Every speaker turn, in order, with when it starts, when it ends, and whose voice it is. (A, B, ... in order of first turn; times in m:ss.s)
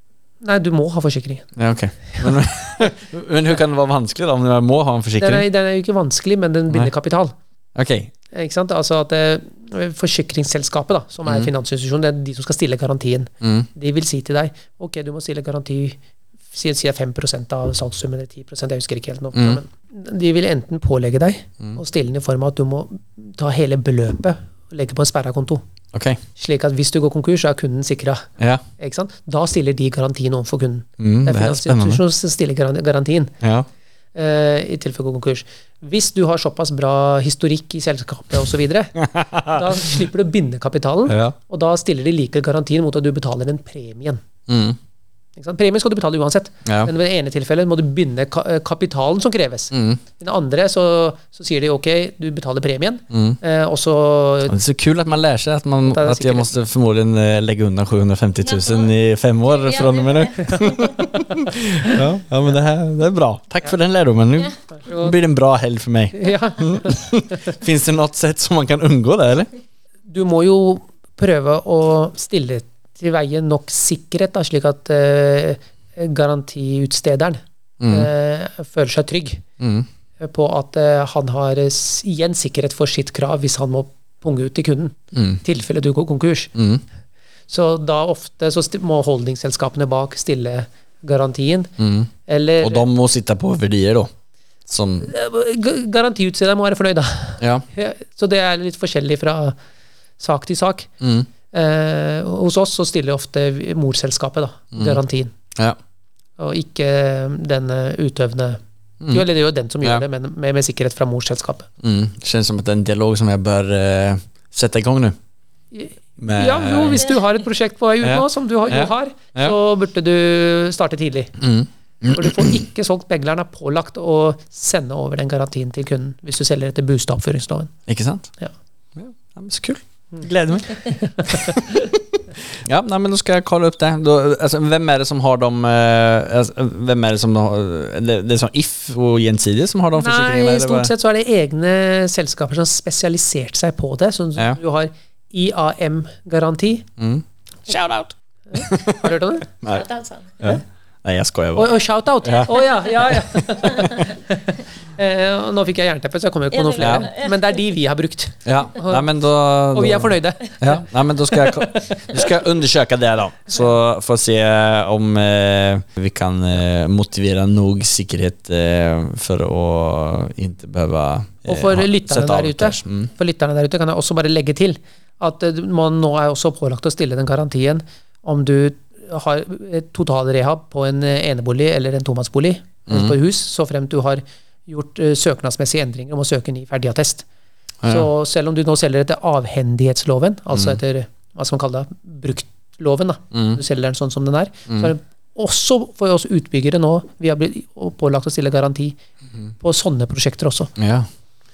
0:00.4-0:01.5 A
0:01.6-0:05.5 B
0:02.2-0:02.9 A
0:05.2-0:07.4 A
0:07.8-0:08.1 B
0:08.3-0:16.0 A
0:13.4-0:13.7 B
0:16.5-0:25.6 A
0:19.3-0:19.6 B
0:25.9-0:26.2 B
0:26.4-0:33.3 A
0:28.4-0:28.6 B
0:31.0-0:32.0 B
0:33.4-0:33.7 B
0:34.2-0:44.2 A
0:39.0-0:39.7 B
0:41.1-0:41.4 B
0:44.5-0:44.8 B
0:45.4-0:54.6 A
0:46.6-0:46.9 B
0:49.7-0:50.0 B
0:53.1-0:53.4 B
0:54.5-1:09.5 B
0:55.9-0:56.5 A
0:58.5-0:58.9 C
0:59.5-1:00.9 C
1:04.8-1:05.2 A
1:06.1-1:07.0 A
1:10.1-1:19.4 A
1:17.8-1:18.1 B
1:19.6-1:19.9 B
1:20.2-1:26.5 A
1:25.1-1:25.4 B
1:26.6-1:26.8 B
1:27.5-1:31.7 A
1:31.8-1:32.1 B
1:32.3-1:32.9 A
1:32.6-1:34.1 B
1:34.7-1:35.1 B
1:35.0-1:39.6 A
1:37.4-1:37.6 B
1:40.2-1:40.9 A
1:41.0-1:41.3 B
1:41.5-1:45.3 A
1:44.7-1:45.0 B
1:46.4-1:51.7 A
1:51.8-1:55.2 B
1:55.7-2:01.4 A
1:56.2-1:57.1 B
1:58.0-1:59.6 B
2:01.4-2:02.6 B
2:02.1-2:07.7 A
2:07.9-2:08.3 B
2:09.0-2:11.7 B
2:10.9-2:11.9 A
2:12.5-2:20.9 B
2:20.0-2:26.9 A
2:27.0-2:29.9 B
2:28.5-2:29.5 A
2:29.7-2:30.4 C
2:30.4-2:34.1 B
2:31.6-2:39.1 A
2:36.5-2:37.4 C
2:36.8-2:37.1 B
2:38.4-2:53.1 B
2:39.7-2:42.2 A
2:51.5-3:07.2 A
3:02.9-3:03.2 B
3:07.8-3:08.1 B
3:07.9-3:19.0 A
3:10.5-3:10.8 B
3:13.3-3:13.6 B
3:19.6-3:20.7 A
3:20.8-3:21.1 B